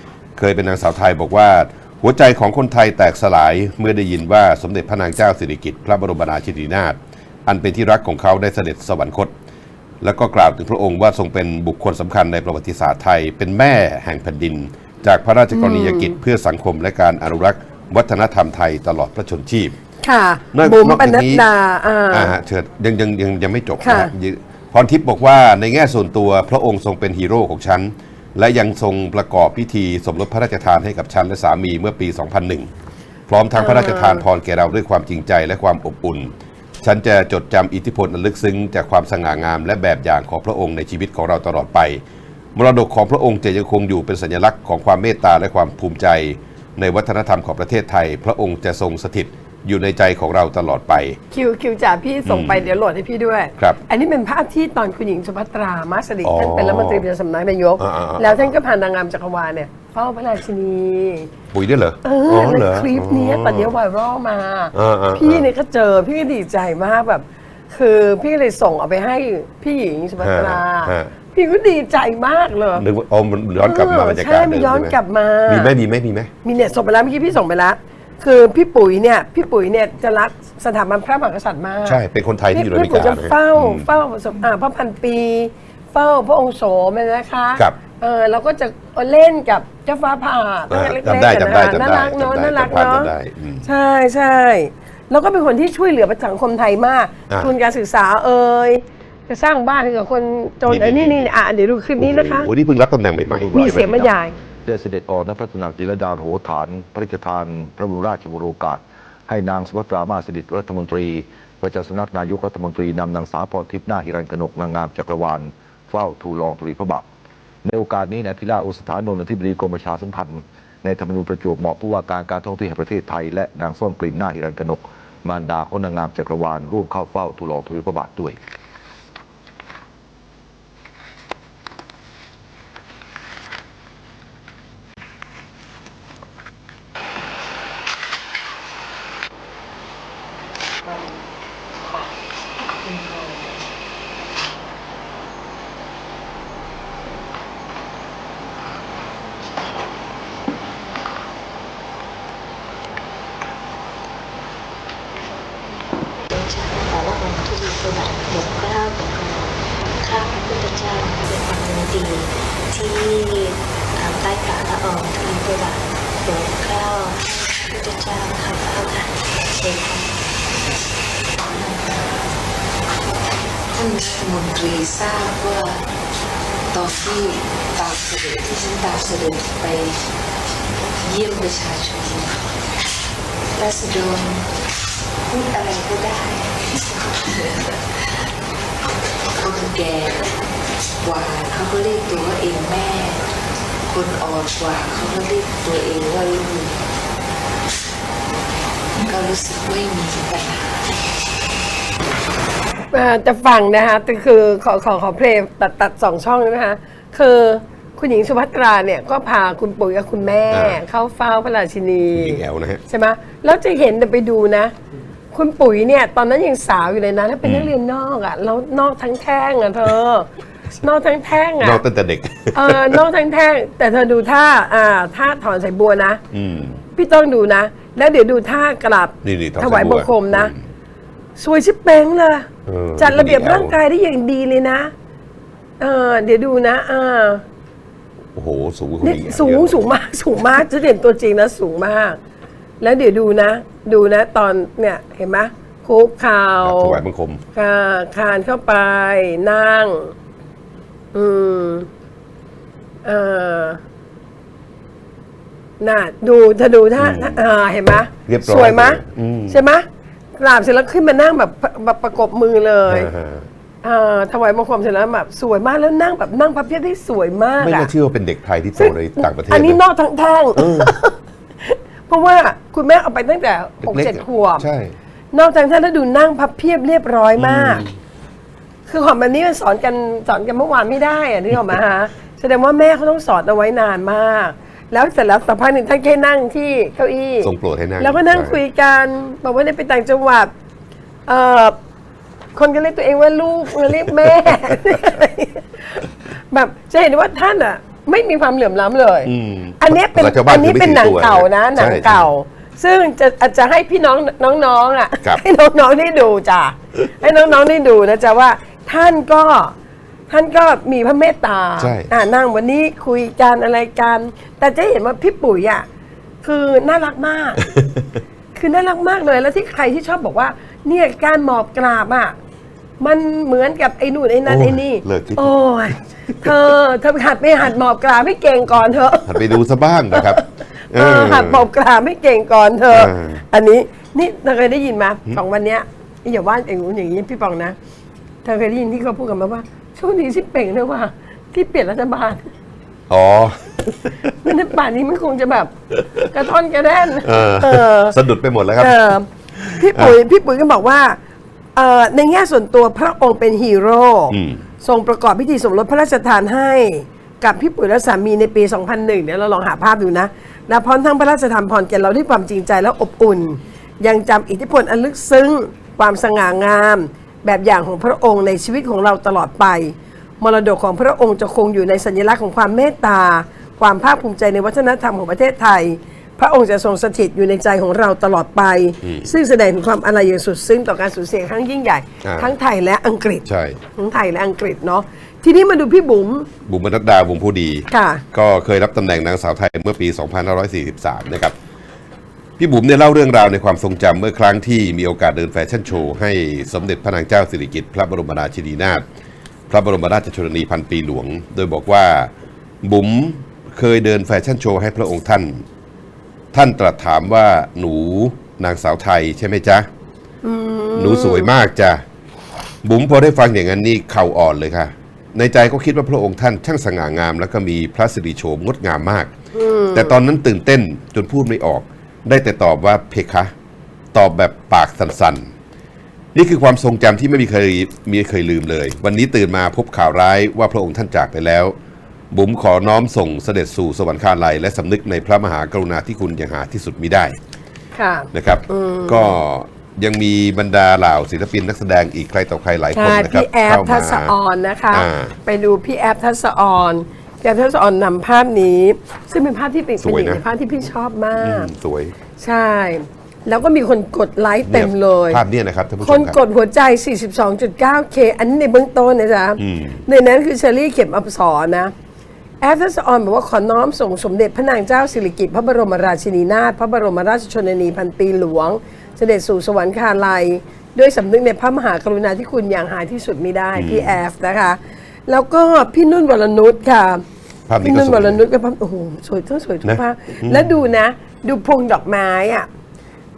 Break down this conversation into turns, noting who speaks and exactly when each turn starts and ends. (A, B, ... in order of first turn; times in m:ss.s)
0:00.4-0:09.3 A
0:10.0-0:19.8 A
0:15.5-0:16.2 B
0:20.0-0:22.3 B
0:20.5-0:21.4 A
0:22.1-0:32.7 A
0:23.8-0:24.1 B
0:33.3-0:42.0 A
0:33.6-0:34.2 B
0:42.6-0:51.2 A
0:51.3-1:01.3 B
0:52.3-0:52.7 A
0:56.2-0:57.1 A
0:57.8-0:58.5 A
1:01.5-1:03.7 A
1:02.0-1:12.8 B
1:04.7-1:05.5 A
1:10.2-1:11.1 A
1:12.8-1:15.0 A
1:13.6-1:15.7 B
1:15.5-1:16.3 A
1:16.4-1:22.0 B
1:21.8-1:23.9 A
1:22.5-1:33.1 B
1:30.7-1:33.7 A
1:33.6-1:42.5 B
1:40.7-1:41.3 A
1:42.0-1:44.1 A
1:43.3-1:44.1 C
1:43.5-1:44.3 B
1:44.6-1:57.1 C
1:57.6-2:08.4 C
2:22.9-2:23.2 B
2:36.3-2:50.1 D
2:51.4-2:52.3 E
2:53.7-2:55.8 E
2:56.7-3:00.0 E
3:01.0-3:02.4 E
3:03.6-3:04.5 E
3:05.3-3:07.8 E
3:09.4-3:10.4 E
3:11.0-3:13.3 E
3:13.9-3:16.8 E
3:19.0-3:20.9 E
3:22.9-3:34.7 B
3:30.5-3:30.8 A
3:32.2-3:32.8 A
3:35.3-3:40.3 B
3:37.4-3:37.7 A
3:40.8-3:41.8 B
3:41.6-3:43.0 A
3:42.6-3:46.2 B
3:46.3-3:46.8 A
3:46.9-3:50.5 B
3:49.2-3:50.6 A
3:51.4-3:54.9 B
3:52.7-3:53.8 A
3:55.8-3:57.4 B
3:58.4-3:59.9 A
3:59.0-4:02.2 B
4:02.8-4:07.0 B
4:06.6-4:07.4 A
4:07.6-4:10.1 B
4:11.1-4:11.9 B
4:13.0-4:13.8 B
4:15.8-4:19.8 B
4:17.0-4:17.4 A
4:18.1-4:19.6 A
4:20.4-4:23.1 B
4:22.9-4:23.5 A
4:23.8-4:27.9 B
4:27.6-4:29.8 A
4:28.8-4:34.7 B
4:30.6-4:30.9 A
4:33.8-4:34.9 A
4:35.3-4:37.8 B
4:37.4-4:37.9 A
4:38.9-4:50.5 B
4:47.4-4:48.6 A
4:51.3-4:51.8 B
4:52.6-5:09.7 B
4:59.2-5:02.3 A
5:10.3-5:15.9 B
5:11.8-5:12.1 A
5:16.4-5:17.7 B
5:17.8-5:18.0 A
5:18.6-5:22.4 B
5:23.0-5:29.6 B
5:24.4-5:25.5 A
5:29.3-5:31.7 A
5:30.1-5:30.4 B
5:30.9-5:37.8 B
5:32.9-5:33.4 A
5:38.4-5:42.5 B
5:43.1-5:44.3 A
5:44.4-5:48.2 B
5:47.2-5:49.0 A
5:48.8-5:51.2 B
5:49.6-5:50.2 A
5:51.8-6:26.5 B
5:54.3-5:54.6 A
6:19.0-6:19.3 A
6:22.2-6:22.5 A
6:23.4-6:23.8 A
6:26.7-6:31.5 A
6:27.9-6:28.2 B
6:32.6-6:39.0 A
6:39.7-6:42.3 A
6:42.8-6:45.6 A
6:46.5-6:49.9 A
6:50.4-6:51.5 B
6:51.0-6:52.0 A
6:52.8-6:59.3 A
6:59.5-7:00.2 B
6:59.9-7:03.5 A
7:04.1-7:05.4 A
7:06.4-7:11.7 A
7:12.3-7:17.4 A
7:17.9-7:19.4 B
7:18.3-7:24.3 A
7:22.9-7:31.7 B
7:24.9-7:25.4 A
7:30.0-7:30.4 A
7:31.4-7:32.1 A
7:32.4-7:35.4 B
7:34.7-7:36.4 A
7:36.0-7:41.9 B
7:39.6-7:40.0 A
7:42.6-7:57.2 B
7:53.8-7:54.2 A
7:57.7-7:58.4 A
7:57.8-8:02.7 B
7:59.8-8:00.7 A